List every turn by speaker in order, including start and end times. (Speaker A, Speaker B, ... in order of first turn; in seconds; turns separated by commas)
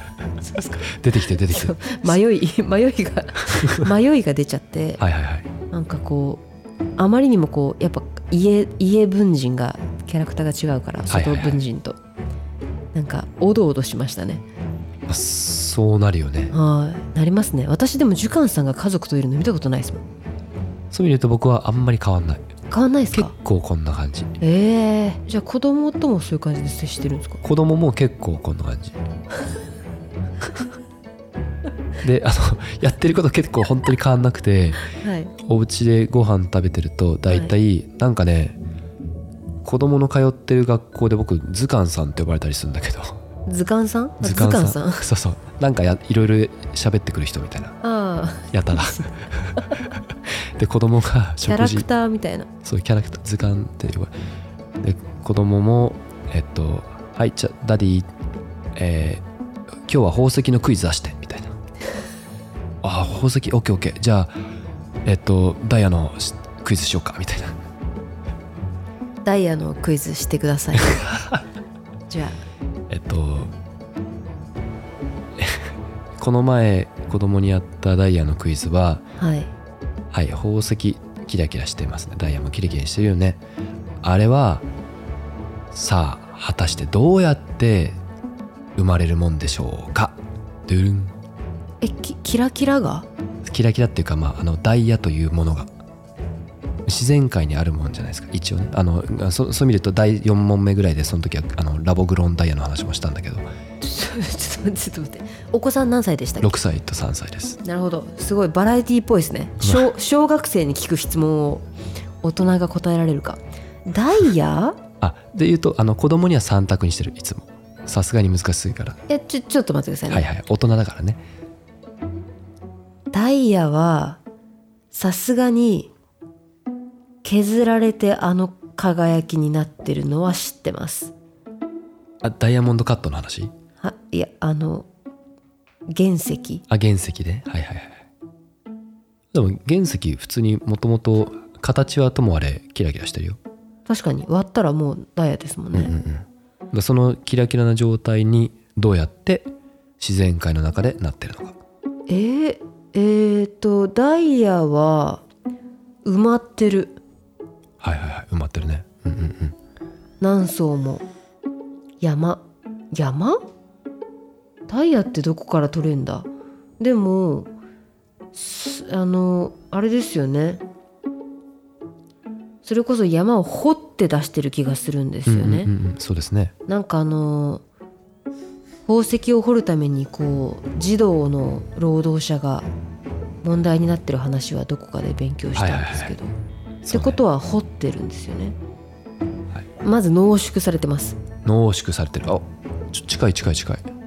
Speaker A: 0.4-5.0, Speaker B: 0.9-2.1, Speaker B: 5.0-5.5, Speaker A: 5.7-6.4, Speaker A: 7.0-12.0, Speaker B: 11.1-11.6, Speaker A: 12.9-14.4, Speaker B: 15.1-16.5, Speaker A: 16.5-20.0, Speaker B: 20.9-22.4, Speaker A: 22.7-23.3, Speaker B: 23.1-24.3, Speaker A: 24.4-27.4, Speaker B: 27.4-29.0, Speaker B: 32.0-34.9, Speaker A: 34.9-35.3, Speaker B: 35.5-38.6, Speaker B: 39.6-43.2, Speaker A: 43.5-45.0, Speaker B: 44.2-47.8, Speaker A: 47.8-49.0, Speaker B: 48.5-49.6, Speaker B: 50.6-51.9, Speaker A: 51.5-52.5, Speaker B: 52.6-54.1, Speaker B: 54.8-58.1, Speaker B: 58.8-59.2, Speaker B: 59.9-61.6, Speaker B: 62.8-64.3, Speaker B: 65.0-67.6, Speaker A: 69.2-71.1, Speaker A: 72.1-72.4, Speaker B: 72.9-73.5, Speaker B: 75.4-79.1, Speaker A: 79.2-79.5, Speaker B: 80.1-83.4, Speaker B: 84.0-84.7, Speaker B: 85.7-88.0, Speaker B: 88.8-91.1, Speaker A: 91.8-93.1, Speaker B: 93.5-95.7, Speaker B: 96.9-103.5, Speaker A: 103.8-106.6, Speaker B: 106.4-107.6, Speaker A: 107.6-111.7, Speaker B: 109.6-109.9, Speaker A: 112.2-114.8, Speaker B: 115.0-119.0, Speaker A: 119.1-120.3, Speaker B: 120.1-121.2, Speaker A: 123.1-124.2, Speaker A: 124.9-125.9, Speaker A: 127.2-131.1, Speaker B: 132.2-133.5, Speaker A: 133.8-134.9, Speaker A: 135.9-136.6, Speaker B: 136.7-138.1, Speaker B: 139.3-143.4, Speaker A: 143.9-145.9, Speaker B: 145.7-151.6, Speaker A: 152.1-155.2, Speaker A: 156.1-157.0, Speaker B: 157.8-159.6, Speaker A: 160.2-161.1, Speaker A: 162.0-163.4, Speaker A: 164.7-166.3, Speaker A: 166.8-167.5, Speaker A: 168.3-170.6, Speaker A: 172.7-175.7, Speaker B: 175.3-176.5, Speaker A: 176.7-177.6, Speaker A: 178.9-182.7, Speaker A: 183.4-186.3, Speaker B: 185.6-186.2, Speaker B: 186.8-187.2, Speaker A: 186.9-188.6, Speaker A: 189.8-191.2, Speaker B: 191.4-193.9